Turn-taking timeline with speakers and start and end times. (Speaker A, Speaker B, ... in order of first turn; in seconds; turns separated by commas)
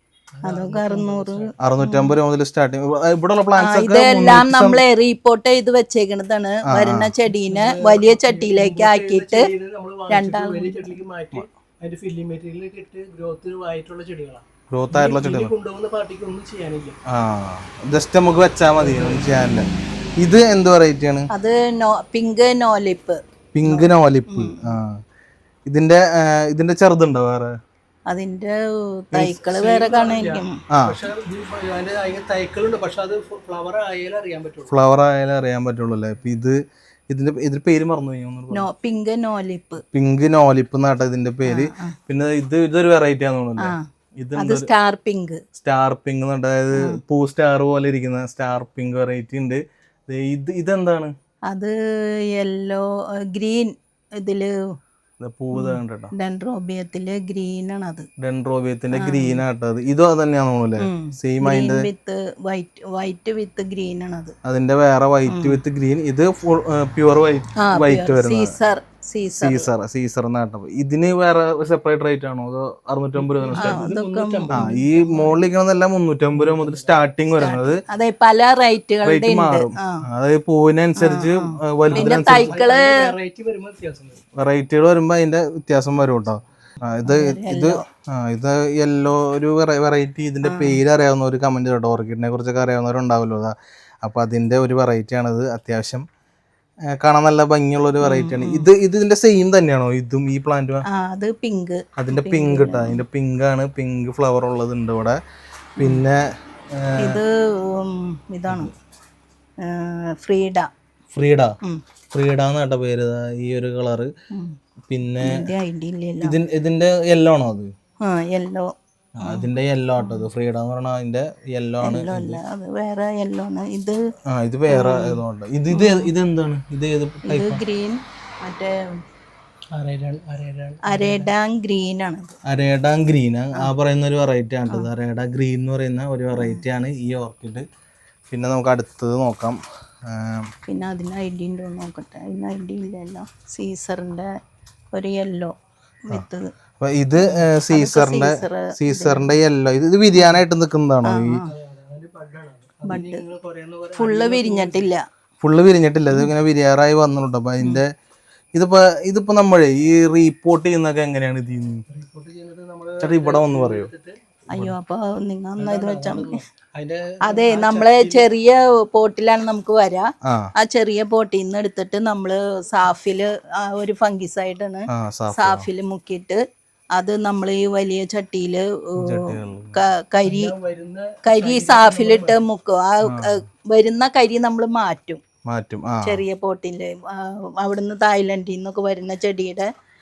Speaker A: 0.4-1.5, Speaker B: 0.4-2.2, Speaker C: 1.6-4.8, Speaker B: 3.5-9.5, Speaker C: 6.7-7.1, Speaker A: 7.3-17.0, Speaker B: 10.1-10.9, Speaker C: 14.7-15.5, Speaker C: 17.1-19.7, Speaker A: 18.8-19.3, Speaker C: 20.2-21.3, Speaker B: 21.3-24.8, Speaker C: 23.5-25.0, Speaker C: 25.7-27.5, Speaker B: 28.1-30.6, Speaker A: 29.2-34.7, Speaker C: 30.7-31.0, Speaker C: 34.7-36.6, Speaker C: 37.1-38.7, Speaker B: 38.5-39.8, Speaker C: 39.9-44.6, Speaker B: 41.5-41.9, Speaker B: 43.6-45.4, Speaker C: 45.5-51.1, Speaker B: 51.5-51.7, Speaker B: 52.3-54.5, Speaker C: 55.2-56.1, Speaker B: 55.5-58.1, Speaker C: 58.2-61.9, Speaker B: 59.0-59.4, Speaker B: 60.8-64.3, Speaker C: 64.4-68.5, Speaker B: 65.3-65.6, Speaker B: 67.6-69.7, Speaker C: 69.4-73.8, Speaker A: 73.2-75.4, Speaker B: 73.5-74.7, Speaker C: 74.5-77.8, Speaker A: 76.3-76.9, Speaker B: 77.4-80.0, Speaker C: 79.0-82.6, Speaker B: 81.0-83.1, Speaker A: 81.9-84.2, Speaker C: 84.4-96.0, Speaker B: 87.0-87.8, Speaker B: 90.4-90.8, Speaker C: 97.0-100.8, Speaker B: 98.0-98.7, Speaker B: 100.9-103.0, Speaker C: 102.0-105.2, Speaker B: 105.8-106.0, Speaker C: 105.8-106.2, Speaker C: 106.8-107.2, Speaker B: 107.0-108.7, Speaker B: 109.6-110.7, Speaker C: 111.1-111.5, Speaker C: 112.1-114.1, Speaker C: 114.9-115.4, Speaker B: 115.2-116.3, Speaker C: 116.2-117.7, Speaker B: 118.0-118.7, Speaker C: 119.2-122.4, Speaker B: 120.0-120.3, Speaker B: 121.8-124.0, Speaker C: 124.3-127.6, Speaker B: 124.7-125.2, Speaker B: 125.7-126.1, Speaker B: 127.3-129.0, Speaker A: 129.7-131.3, Speaker B: 130.8-132.3, Speaker C: 132.4-137.6, Speaker B: 136.3-136.6, Speaker C: 138.3-140.5, Speaker B: 140.7-144.3, Speaker B: 144.9-145.5, Speaker B: 146.1-146.4, Speaker C: 146.8-151.4, Speaker B: 147.2-149.4, Speaker B: 150.1-150.4, Speaker B: 151.0-151.5, Speaker A: 151.3-154.9, Speaker B: 152.9-153.2, Speaker B: 154.0-155.0, Speaker C: 155.4-157.9, Speaker C: 158.6-161.8, Speaker A: 161.9-164.2, Speaker C: 163.0-163.9, Speaker B: 164.5-166.4, Speaker A: 165.6-168.3, Speaker B: 167.2-176.4, Speaker C: 170.2-170.5, Speaker C: 174.9-175.7, Speaker B: 176.9-180.5, Speaker C: 179.0-179.8, Speaker A: 180.2-182.4, Speaker B: 181.2-185.2, Speaker C: 183.1-183.4, Speaker C: 185.4-186.2, Speaker B: 186.0-189.7